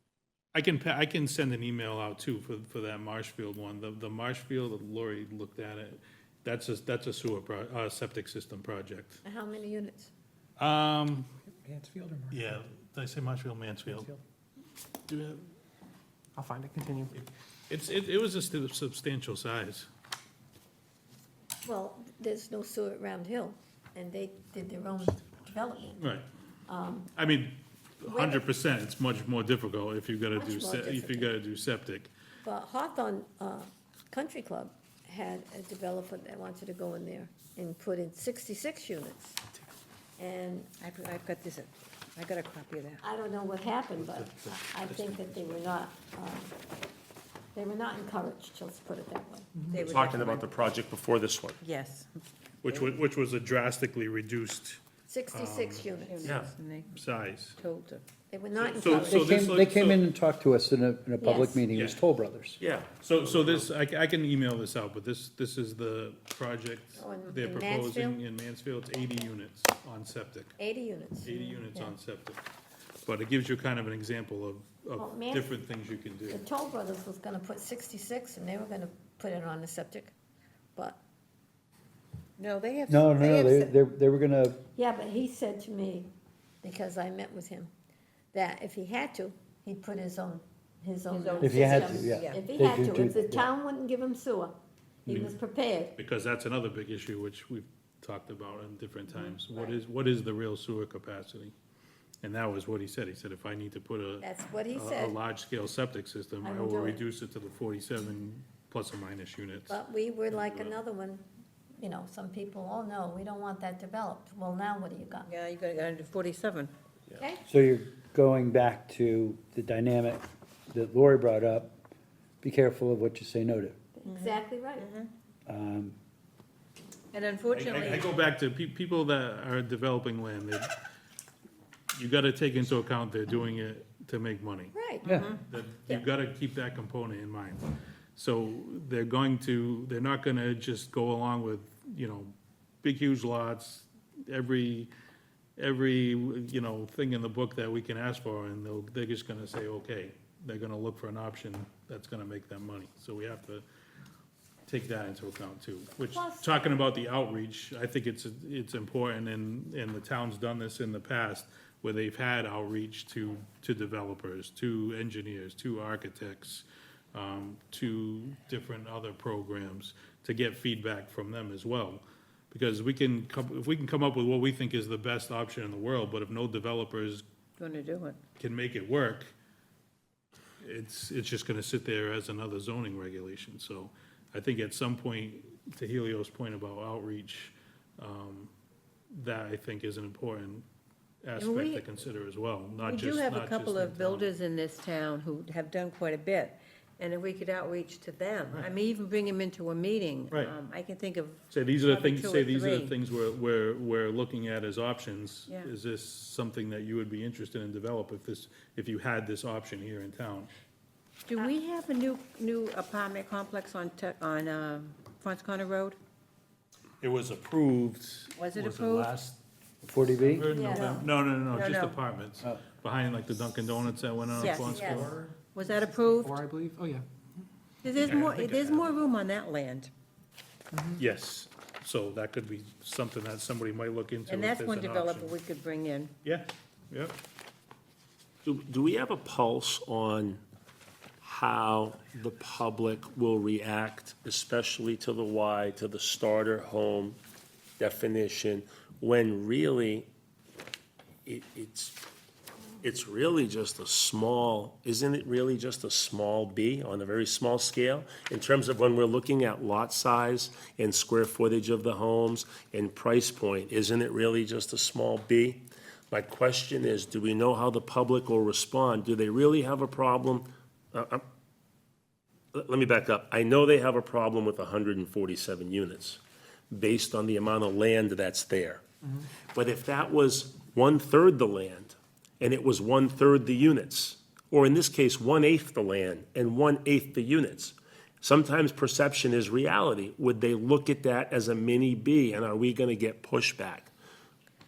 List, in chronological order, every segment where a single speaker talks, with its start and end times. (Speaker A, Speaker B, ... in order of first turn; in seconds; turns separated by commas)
Speaker A: 0.5-9.2, Speaker B: 9.2-10.1, Speaker A: 10.6-11.3, Speaker C: 11.5-12.6, Speaker A: 12.3-14.1, Speaker C: 13.9-14.2, Speaker A: 15.1-15.4, Speaker C: 16.4-17.1, Speaker A: 17.1-19.9, Speaker B: 21.6-26.0, Speaker A: 26.0-26.3, Speaker B: 26.7-27.1, Speaker A: 27.1-32.1, Speaker B: 28.1-28.4, Speaker B: 30.3-31.3, Speaker B: 32.4-39.4, Speaker B: 40.2-40.7, Speaker D: 40.8-43.0, Speaker B: 43.0-46.5, Speaker A: 44.0-45.6, Speaker B: 47.5-49.5, Speaker D: 49.7-50.5, Speaker E: 49.9-51.6, Speaker D: 51.6-52.9, Speaker A: 52.6-55.9, Speaker B: 55.1-56.4, Speaker D: 56.0-57.0, Speaker E: 56.2-56.5, Speaker A: 56.9-57.6, Speaker D: 57.6-58.0, Speaker B: 58.3-59.5, Speaker A: 58.6-60.0, Speaker F: 58.9-62.6, Speaker B: 61.2-61.6, Speaker A: 61.7-62.0, Speaker E: 62.6-63.7, Speaker A: 63.0-70.6, Speaker B: 67.0-68.2, Speaker B: 70.6-71.9, Speaker A: 71.2-72.4, Speaker A: 73.0-76.4, Speaker B: 75.0-75.6, Speaker B: 76.3-80.1, Speaker D: 82.4-83.7, Speaker F: 82.9-84.6, Speaker B: 84.7-86.1, Speaker B: 86.6-87.7, Speaker B: 88.3-96.0, Speaker D: 91.1-92.4, Speaker F: 91.4-93.5, Speaker A: 95.1-95.3, Speaker A: 96.0-101.5, Speaker A: 102.2-109.8, Speaker B: 104.2-105.1, Speaker B: 106.4-107.0, Speaker B: 109.7-111.2, Speaker B: 111.8-115.3, Speaker D: 115.2-116.7, Speaker B: 117.2-117.4, Speaker F: 117.5-121.8, Speaker F: 122.4-123.8, Speaker B: 124.0-124.9, Speaker D: 124.0-125.1, Speaker F: 125.5-125.9, Speaker D: 127.1-128.1, Speaker A: 127.5-130.7, Speaker A: 131.9-134.8, Speaker B: 134.7-135.2, Speaker D: 135.0-136.0, Speaker F: 135.0-135.3, Speaker A: 135.4-144.9, Speaker A: 145.6-153.6, Speaker A: 154.7-177.2, Speaker B: 156.1-156.6, Speaker D: 177.6-178.2, Speaker A: 178.4-179.3, Speaker A: 180.6-188.5, Speaker A: 189.1-190.6, Speaker A: 191.2-194.3, Speaker D: 191.4-191.8, Speaker D: 192.8-202.9, Speaker A: 201.5-210.5, Speaker D: 211.2-216.0, Speaker A: 217.0-219.4, Speaker D: 218.4-219.1, Speaker F: 219.8-220.5, Speaker A: 220.2-225.2, Speaker B: 220.5-221.0, Speaker D: 220.7-222.0, Speaker D: 224.3-225.0, Speaker C: 224.6-227.1, Speaker B: 224.7-225.1, Speaker D: 225.5-226.4, Speaker D: 227.8-229.9, Speaker A: 227.9-228.9, Speaker C: 230.7-231.0, Speaker A: 231.0-235.3, Speaker D: 234.3-236.1, Speaker A: 236.2-237.2, Speaker E: 238.4-240.4, Speaker E: 241.2-247.2, Speaker E: 247.8-250.1, Speaker E: 251.2-252.0, Speaker E: 252.8-271.2, Speaker E: 272.5-293.9